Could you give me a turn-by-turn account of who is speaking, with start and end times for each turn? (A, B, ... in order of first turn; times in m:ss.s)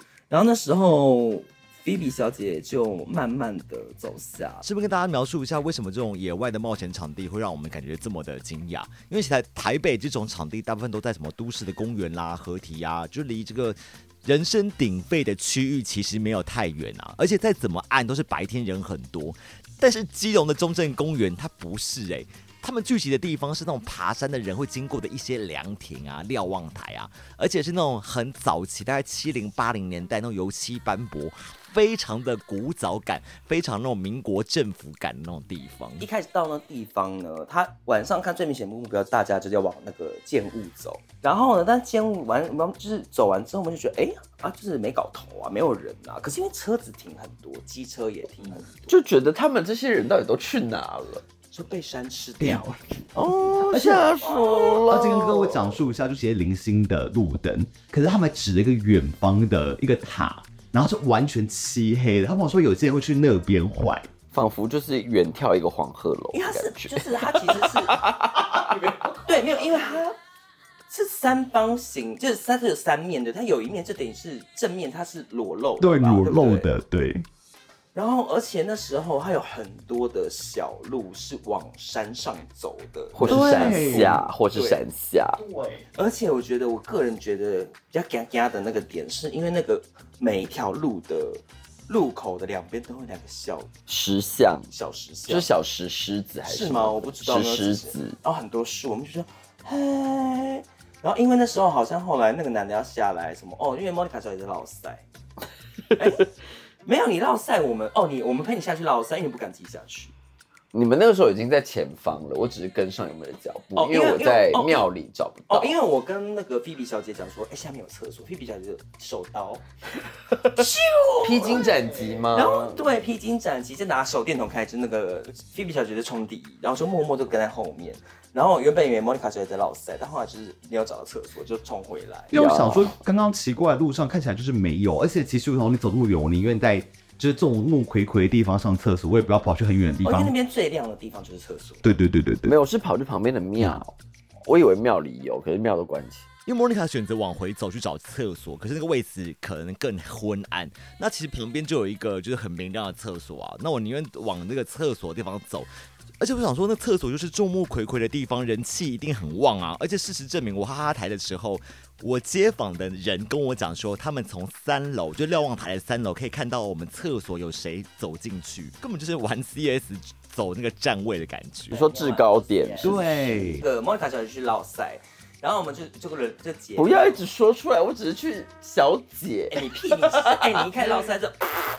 0:00.3-0:04.7 A
0:04.6-0:36.1 B
0:36.0-0:49.0 A
0:48.9-0:51.2 C
0:51.5-0:52.8 A
0:52.4-0:53.1 D
0:53.2-0:55.8 C
0:53.7-1:04.1 D
0:54.2-0:54.8 A
1:04.3-1:08.9 C
1:06.3-1:08.1 A
1:09.2-1:10.2 A
1:10.9-1:16.7 A
1:15.8-1:17.2 D
1:17.9-1:24.8 A
1:23.1-1:25.4 C
1:23.2-1:24.2 D
1:25.4-1:25.8 D
1:26.0-1:33.7 A
1:33.9-1:34.7 C
1:34.7-1:35.5 A
1:35.3-1:38.2 C
1:36.4-1:45.0 A
1:46.0-1:46.3 A
1:46.8-1:50.1 A
1:50.7-1:55.8 C
1:53.8-1:54.9 A
1:55.5-1:59.6 A
2:00.4-2:12.3 A
2:01.2-2:02.8 C
2:12.3-2:20.3 D
2:12.3-2:13.0 C
2:20.0-2:21.9 A
2:21.8-2:22.6 D
2:22.5-2:26.3 C
2:26.5-2:51.9 B
2:51.7-2:53.0 C
2:51.8-2:57.2 A
2:52.8-2:53.6 D
2:56.8-3:00.8 C
2:59.5-3:01.6 A